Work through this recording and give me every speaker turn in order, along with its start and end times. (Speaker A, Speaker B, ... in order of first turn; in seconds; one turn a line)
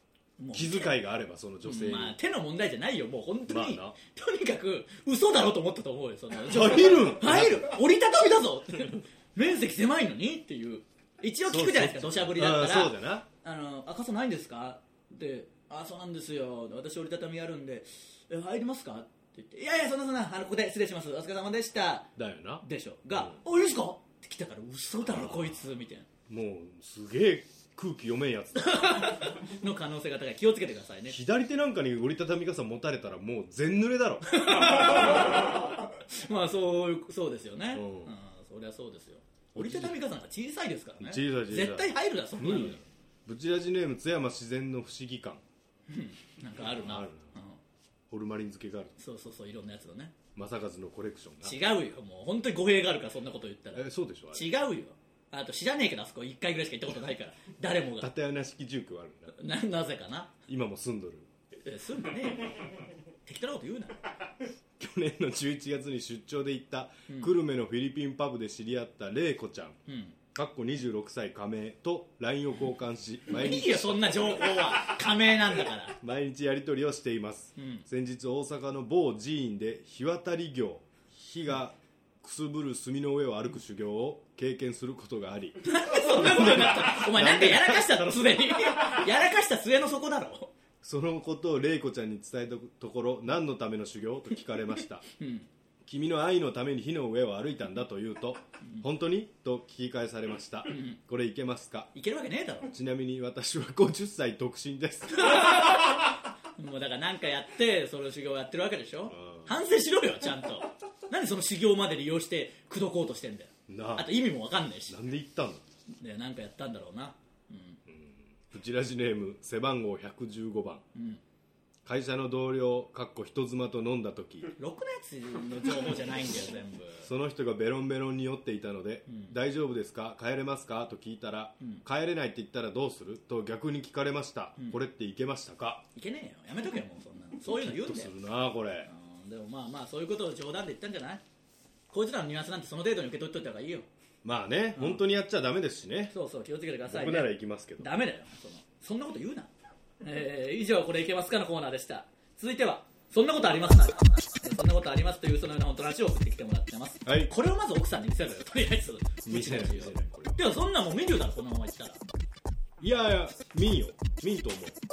Speaker A: 0.4-1.0
Speaker B: 0.5-2.2
Speaker A: 1.6-26.1
Speaker B: 3.5-3.9
Speaker B: 6.4-7.8
Speaker B: 11.5-13.3
Speaker B: 22.2-23.4
Speaker B: 25.1-25.6
Speaker B: 26.3-29.2
Speaker A: 28.6-31.2
Speaker B: 31.1-35.1
Speaker A: 34.3-42.8
Speaker B: 37.7-38.1
Speaker B: 39.5-40.0
Speaker B: 41.0-45.4
Speaker A: 45.9-47.6
Speaker B: 46.6-47.3
Speaker B: 48.1-48.9
Speaker A: 49.0-50.1
Speaker B: 50.4-51.6
Speaker A: 51.4-58.1
Speaker B: 53.8-54.5
Speaker B: 58.0-59.3
Speaker A: 59.4-60.3
Speaker B: 60.5-61.3
Speaker A: 61.6-62.5
Speaker A: 63.3-64.0
Speaker B: 64.8-69.8
Speaker A: 67.1-67.3
Speaker A: 69.9-70.2
Speaker B: 70.3-74.5
Speaker A: 73.3-76.0
Speaker B: 76.0-88.0
Speaker A: 77.6-77.8
Speaker A: 85.6-90.5
Speaker B: 90.8-95.0
Speaker A: 95.1-95.5
Speaker B: 95.8-101.9
Speaker A: 100.7-101.0
Speaker A: 101.9-102.7
Speaker B: 102.7-105.5
Speaker A: 105.1-115.0
Speaker B: 109.1-109.5
Speaker B: 113.7-114.2
Speaker B: 114.9-115.6
Speaker A: 116.0-117.8
Speaker B: 117.9-120.8
Speaker A: 121.0-121.2
Speaker B: 121.8-124.5
Speaker A: 124.6-127.1
Speaker B: 127.0-135.8
Speaker A: 129.1-129.3
Speaker A: 135.9-138.1
Speaker B: 137.4-138.9
Speaker A: 138.9-141.2
Speaker A: 141.9-143.9
Speaker B: 144.2-146.1
Speaker A: 144.8-145.0
Speaker A: 146.1-149.5
Speaker B: 146.9-147.9
Speaker A: 150.0-162.0
Speaker B: 157.1-157.3
Speaker B: 159.2-160.4
Speaker B: 162.8-164.8